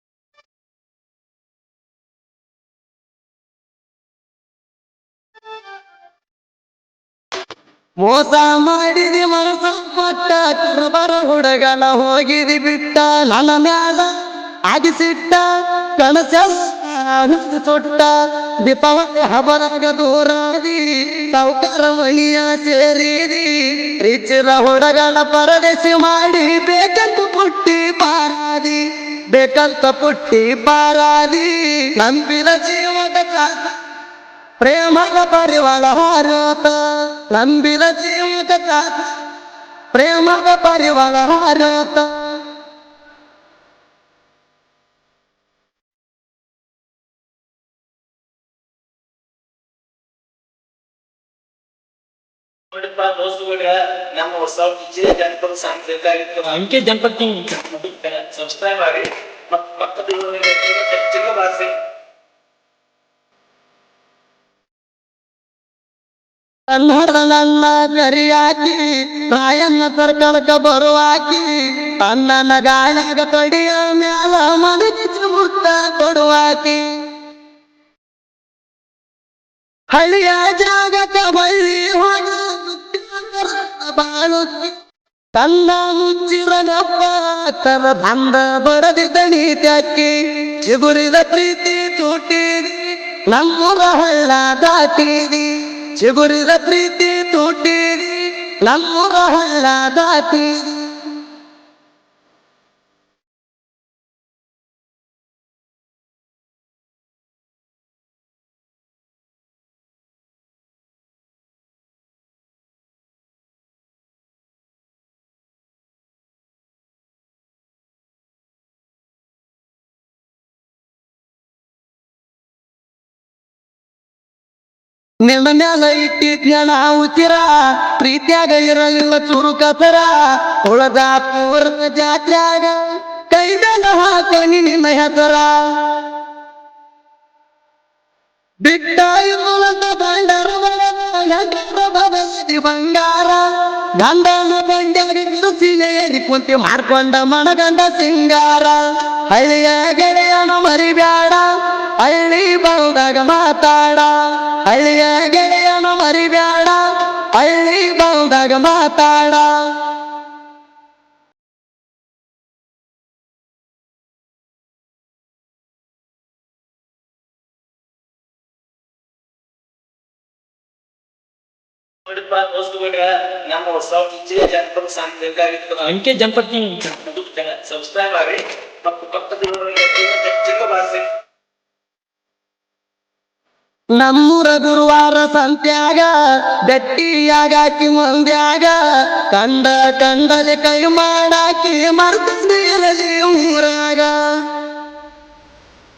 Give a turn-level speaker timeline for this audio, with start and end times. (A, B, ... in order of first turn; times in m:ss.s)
0:08.0-0:33.8 A
0:34.6-0:39.2 A
0:39.9-0:42.5 A
0:52.7-0:56.6 B
0:56.5-0:57.9 C
0:57.8-1:01.8 B
1:06.7-1:17.2 A
1:19.9-1:24.8 A
1:25.3-1:41.2 A
2:05.2-2:16.1 A
2:18.6-2:40.0 A
2:52.0-2:55.9 B
2:55.8-2:57.0 C
2:57.0-3:01.1 B
3:03.9-3:14.6 A